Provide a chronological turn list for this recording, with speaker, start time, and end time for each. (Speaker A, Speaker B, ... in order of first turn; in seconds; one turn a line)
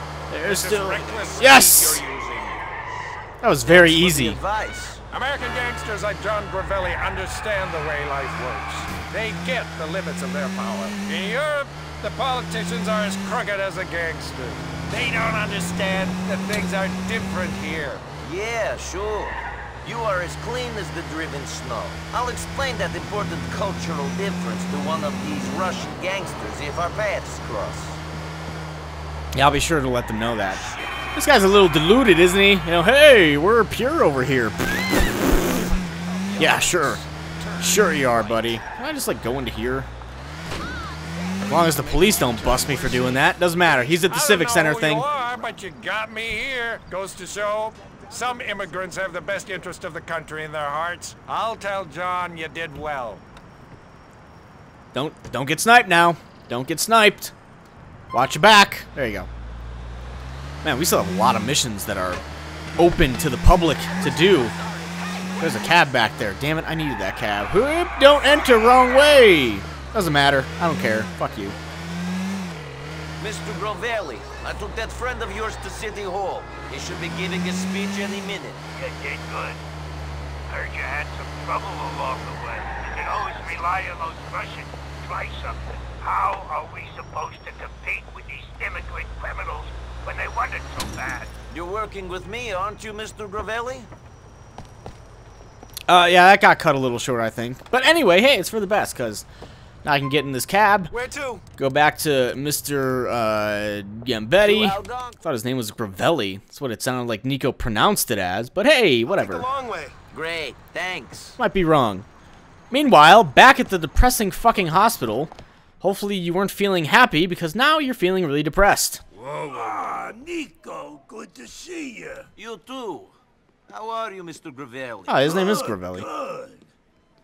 Speaker A: 0.3-2.0
Speaker B: 0.4-2.5
Speaker A: 3.4-4.4
Speaker C: 3.7-5.0
Speaker B: 5.1-18.0
Speaker C: 18.2-28.0
Speaker A: 29.3-30.6
Speaker A: 31.1-35.7
Speaker C: 36.1-38.1
Speaker A: 36.4-37.0
Speaker A: 37.6-39.9
Speaker A: 41.5-45.0
Speaker B: 44.0-53.2
Speaker A: 54.9-57.3
Speaker A: 58.1-59.3
Speaker A: 60.6-62.2
Speaker A: 62.8-64.5
Speaker C: 64.1-65.0
Speaker A: 65.4-71.5
Speaker C: 73.2-78.7
Speaker D: 78.8-79.6
Speaker D: 80.5-91.3
Speaker C: 81.7-82.1
Speaker C: 91.5-93.9
Speaker A: 95.9-99.2
Speaker A: 99.8-100.9
Speaker B: 100.9-101.4
Speaker A: 101.5-109.5
Speaker C: 104.4-105.2
Speaker B: 109.2-110.0
Speaker C: 110.1-111.4
Speaker A: 111.4-112.0
Speaker A: 112.7-119.0
Speaker D: 119.1-122.3
Speaker C: 122.3-123.2
Speaker C: 123.7-125.2
Speaker A: 125.1-126.0
Speaker D: 125.2-126.7